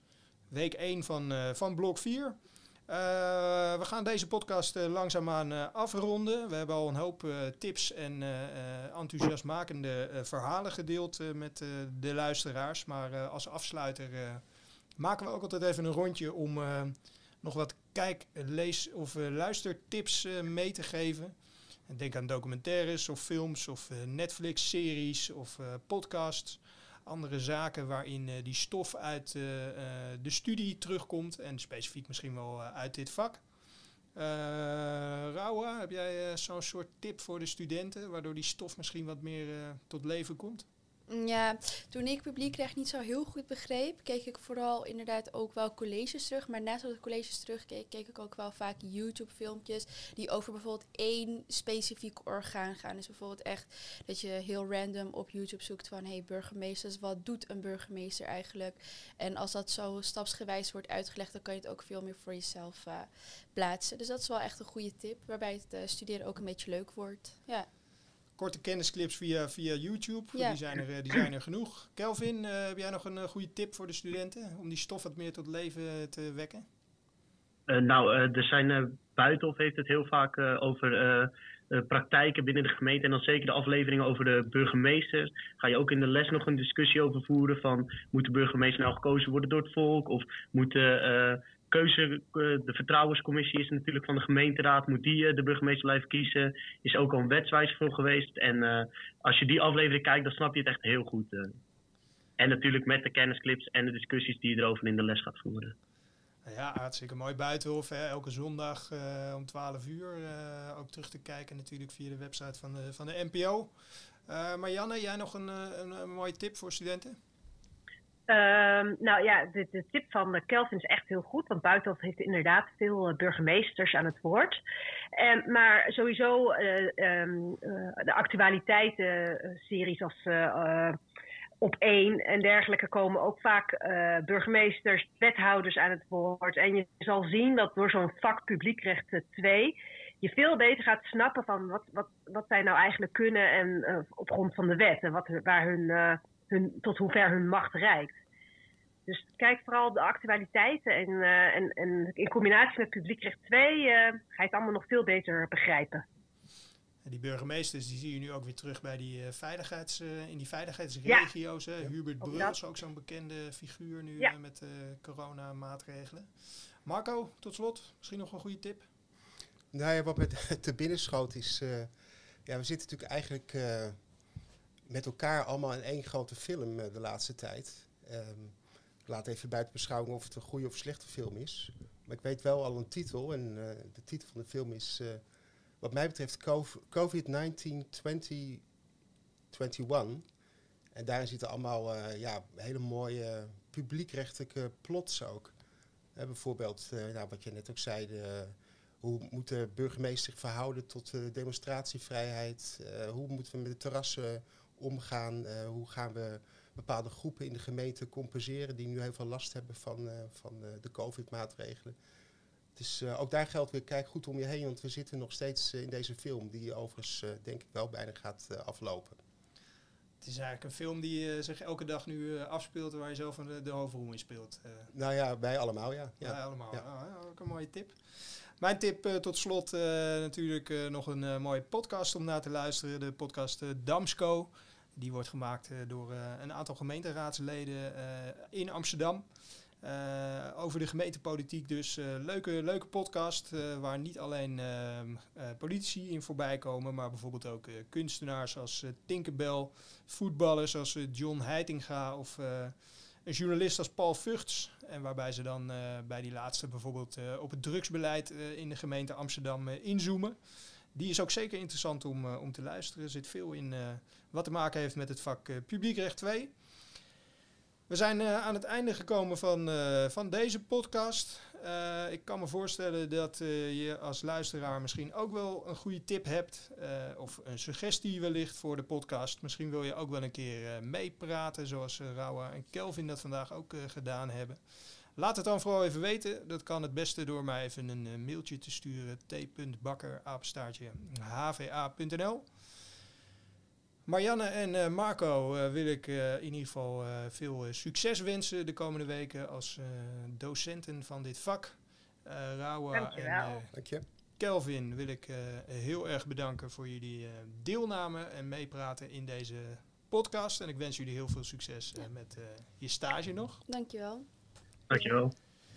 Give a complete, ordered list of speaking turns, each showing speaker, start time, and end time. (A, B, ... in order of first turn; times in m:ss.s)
0:00.5-0:33.4 A
0:34.1-0:40.6 A
0:41.1-1:07.7 B
1:08.4-1:16.6 A
1:10.3-1:10.6 B
1:17.7-1:41.6 C
1:42.4-1:45.7 C
1:46.4-1:57.2 A
1:58.3-2:04.6 D
2:05.2-2:11.0 D
2:11.6-2:28.2 D
2:29.1-2:36.0 D
2:37.0-2:48.9 A
2:42.2-2:42.5 D
2:49.7-2:51.9 E
2:52.4-2:54.0 E
2:54.9-2:58.5 E
2:59.1-3:05.2 E
3:05.8-3:08.6 E
3:09.5-3:10.2 E
3:10.9-3:15.5 E
3:16.1-3:32.0 E
3:32.7-3:39.2 E
3:40.2-3:44.9 A
3:44.9-3:46.8 E
3:46.2-4:26.6 A
4:27.9-4:52.8 A
4:54.0-5:03.7 A
5:02.9-5:03.6 D
5:03.7-5:04.0 E
5:04.4-5:13.6 A
5:13.7-5:14.2 B
5:14.9-5:15.3 C